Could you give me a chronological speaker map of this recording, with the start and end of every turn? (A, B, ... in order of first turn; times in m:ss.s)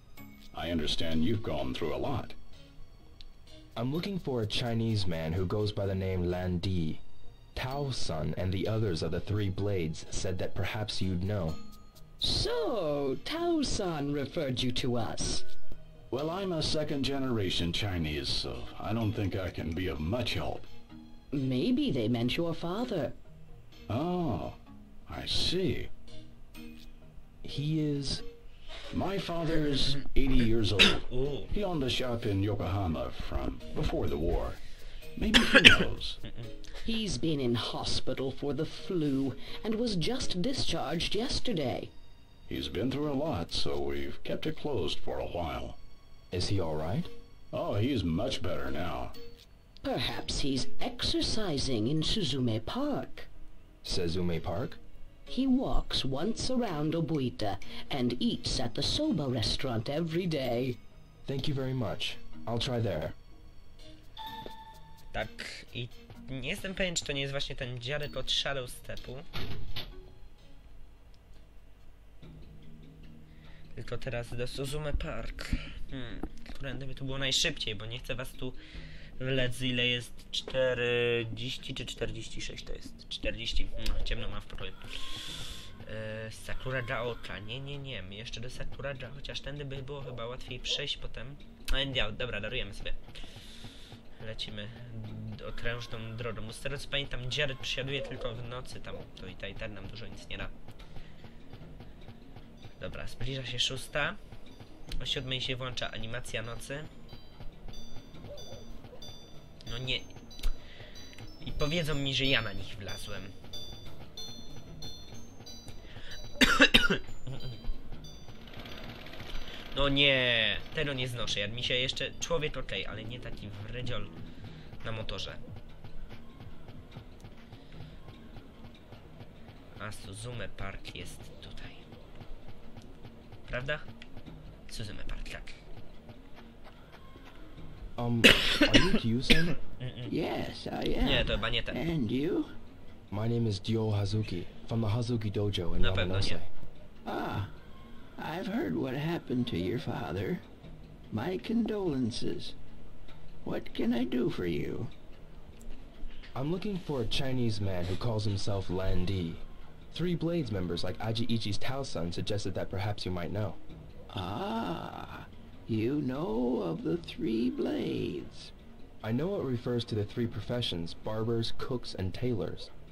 0:00.5-0:02.4 A
0:03.8-0:07.0 B
0:07.6-0:11.6 B
0:12.2-0:15.5 C
0:16.1-0:20.7 A
0:21.3-0:23.2 C
0:23.9-0:25.9 A
0:27.4-0:28.2 B
0:28.9-0:34.6 A
0:31.1-0:31.5 D
0:35.2-0:36.2 A
0:36.8-0:41.9 C
0:42.5-0:45.8 A
0:46.3-0:47.1 B
0:47.5-0:49.2 A
0:49.8-0:53.3 C
0:53.8-0:54.8 B
0:55.3-1:00.8 C
1:01.2-1:03.2 B
1:05.1-1:09.3 D
1:13.7-1:18.6 D
1:19.2-1:33.0 D
1:34.2-1:40.5 D
1:42.8-1:44.2 D
1:45.0-1:46.9 D
1:49.7-1:50.1 D
1:51.4-1:53.3 D
1:56.4-1:57.6 D
1:59.7-2:04.1 D
2:04.8-2:05.4 D
2:09.8-2:11.8 D
2:13.5-2:13.8 D
2:14.7-2:15.6 D
2:18.0-2:19.6 B
2:19.8-2:20.1 D
2:20.1-2:22.5 E
2:21.0-2:21.8 D
2:23.1-2:26.5 B
2:25.8-2:26.4 D
2:27.0-2:27.5 E
2:28.2-2:30.4 E
2:31.1-2:32.6 E
2:33.4-2:34.9 E
2:36.3-2:43.6 B
2:44.1-2:48.5 E
2:49.0-2:52.7 B